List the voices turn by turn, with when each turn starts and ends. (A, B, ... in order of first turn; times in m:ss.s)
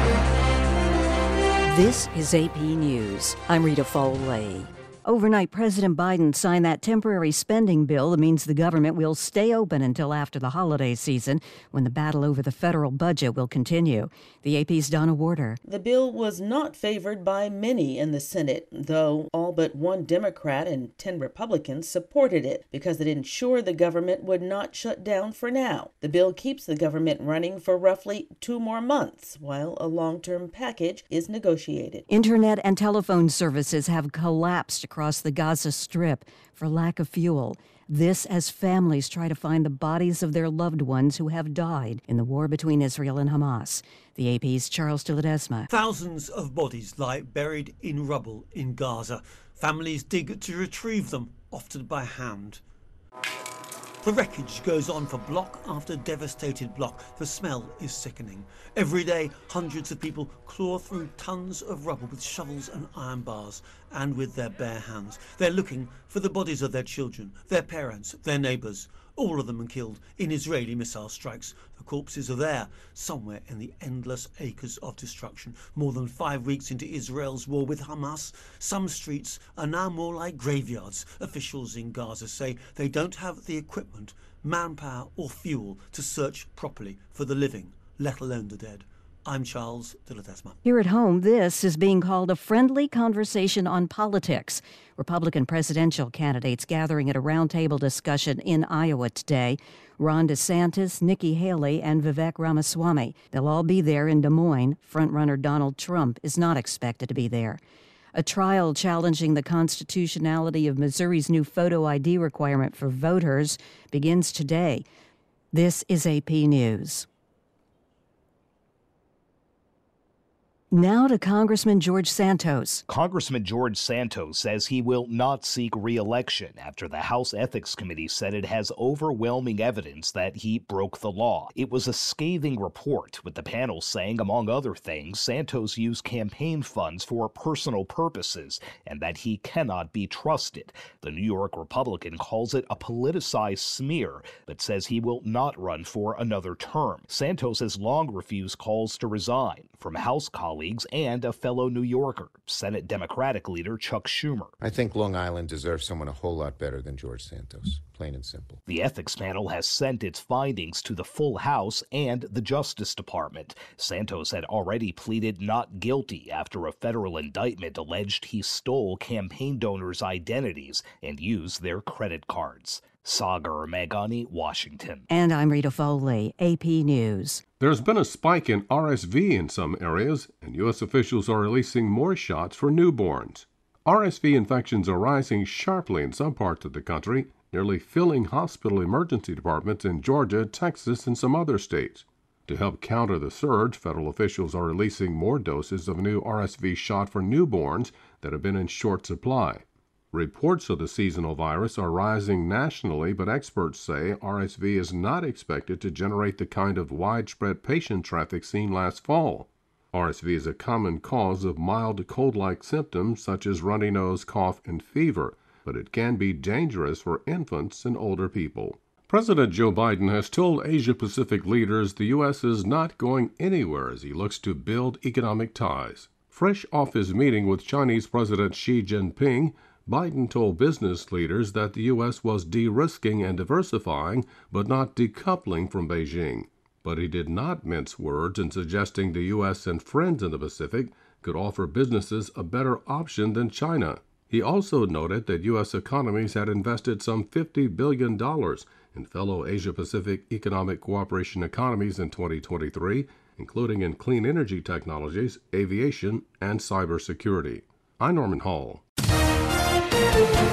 0:01.7-0:15.6 A
0:15.6-0:32.0 B
0:32.1-0:45.7 A
0:45.7-0:52.6 C
0:54.0-1:30.6 C
1:30.6-1:47.6 A
1:48.2-1:54.8 A
1:55.5-1:57.1 A
2:00.7-2:02.8 A
2:02.9-2:34.6 D
2:34.6-2:38.6 E
2:38.7-2:55.1 D
2:55.1-2:57.4 A
2:57.6-4:18.8 F